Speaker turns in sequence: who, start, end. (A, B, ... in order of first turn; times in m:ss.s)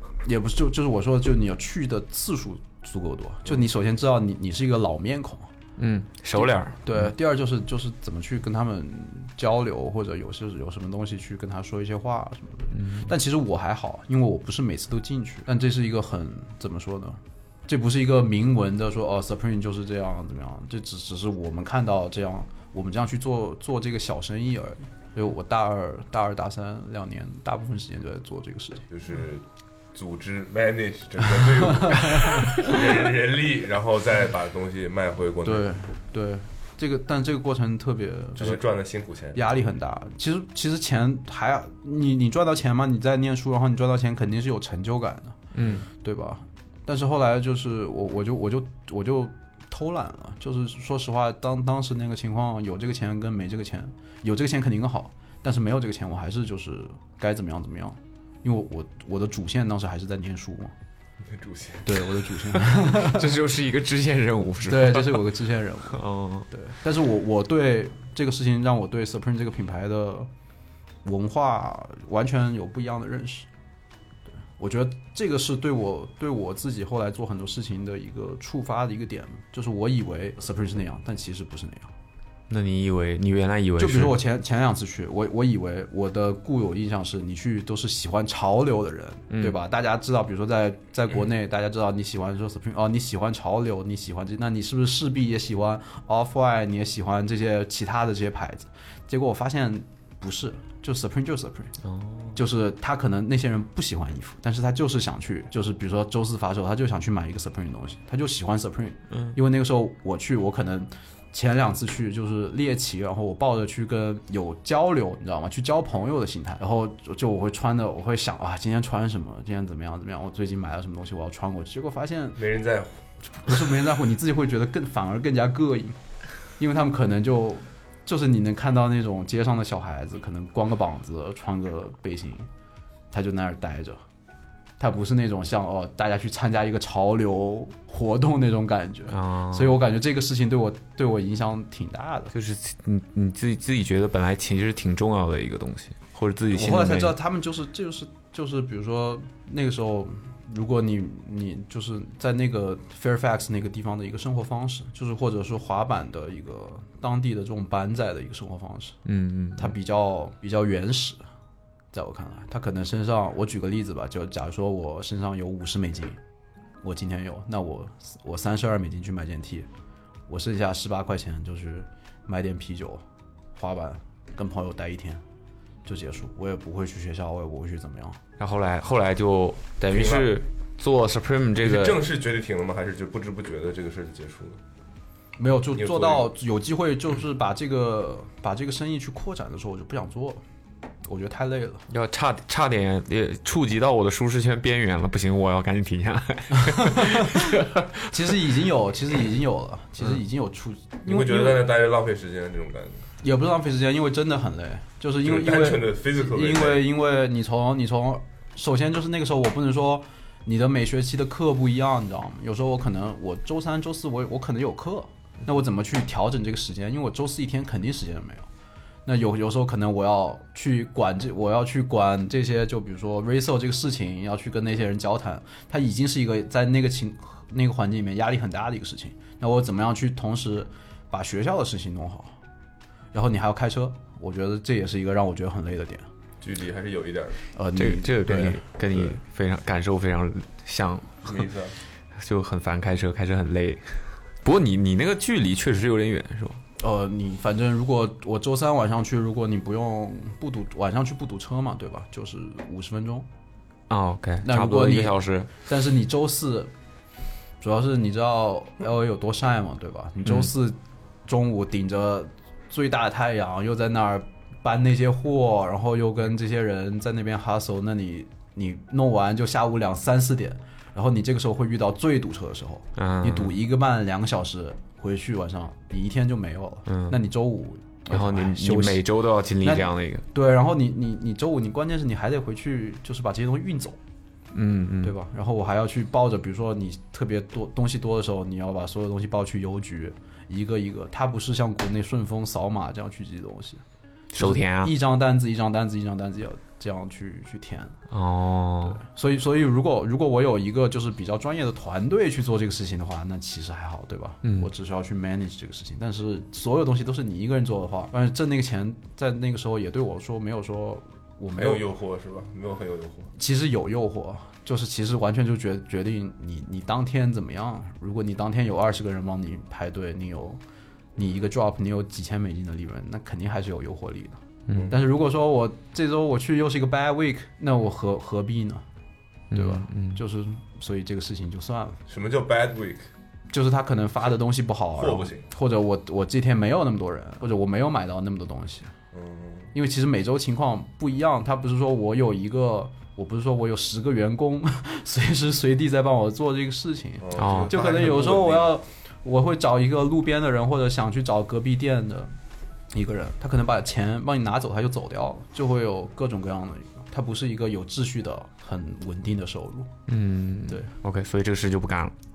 0:00.2-0:05.5 A
0:05.8-0:07.1 B
0:06.3-0:28.8 A
0:12.8-0:13.1 B
0:28.9-0:35.8 C
0:31.7-0:32.7 A
0:35.4-0:38.6 A
0:38.4-0:39.4 C
0:39.3-0:45.4 A
0:45.5-0:45.8 B
0:46.0-1:00.7 A
1:01.2-1:02.0 C
1:01.8-1:03.4 A
1:02.5-1:05.3 B
1:04.6-1:10.3 A
1:05.9-1:06.5 B
1:11.0-1:13.5 A
1:14.6-1:21.9 A
1:22.5-1:24.2 B
1:23.8-1:41.7 A
1:41.8-1:42.4 B
1:42.3-2:02.4 A
1:49.1-1:49.4 B
2:02.4-2:03.0 C
2:03.4-2:06.0 A
2:06.6-2:12.5 A
2:13.1-2:14.0 A
2:14.8-2:22.3 A
2:19.1-2:19.8 B
2:22.3-2:27.1 B
2:26.5-2:39.0 A
2:39.0-2:39.7 B
2:39.6-2:41.2 A
2:41.9-2:46.2 A
2:46.8-2:49.7 A
2:50.3-2:53.0 A
2:53.5-2:55.2 A
2:55.8-2:58.2 A
2:58.4-3:02.0 B
2:59.9-3:00.4 C
3:01.6-3:04.6 C
3:05.4-3:10.4 A
3:05.7-3:06.3 C
3:11.0-3:11.8 A
3:11.9-3:18.0 B
3:16.7-3:17.3 A
3:18.1-3:21.6 A
3:21.0-3:23.1 C
3:23.2-3:38.5 A
3:25.2-3:26.9 C
3:39.0-3:52.3 A
3:53.1-3:56.1 A
3:56.4-3:57.4 C
3:57.5-3:59.2 A
3:57.8-4:01.4 B
4:01.2-4:01.8 C
4:02.2-4:06.6 B
4:06.8-4:13.2 A
4:13.9-4:15.5 B
4:14.4-4:16.7 A
4:17.6-4:39.0 A
4:33.0-4:33.5 B
4:36.9-4:37.2 B
4:38.1-4:40.2 B
4:39.6-4:44.0 A
4:44.5-4:45.1 B
4:45.0-4:53.8 A
4:54.3-4:54.9 B
4:54.4-4:58.0 A
4:58.1-4:59.0 B
4:58.8-5:11.8 A
5:04.4-5:04.7 B
5:11.6-5:13.3 C
5:13.4-5:20.6 A
5:21.2-5:28.8 A
5:24.7-5:25.0 C
5:29.5-5:30.2 B
5:29.5-5:32.0 A
5:32.1-5:33.1 C
5:33.5-5:38.9 A
5:35.0-5:35.5 C
5:39.1-5:39.7 C
5:39.7-5:52.3 A
5:47.2-5:48.7 C
5:47.4-5:47.7 B
5:52.9-5:59.9 A
6:00.1-6:02.1 B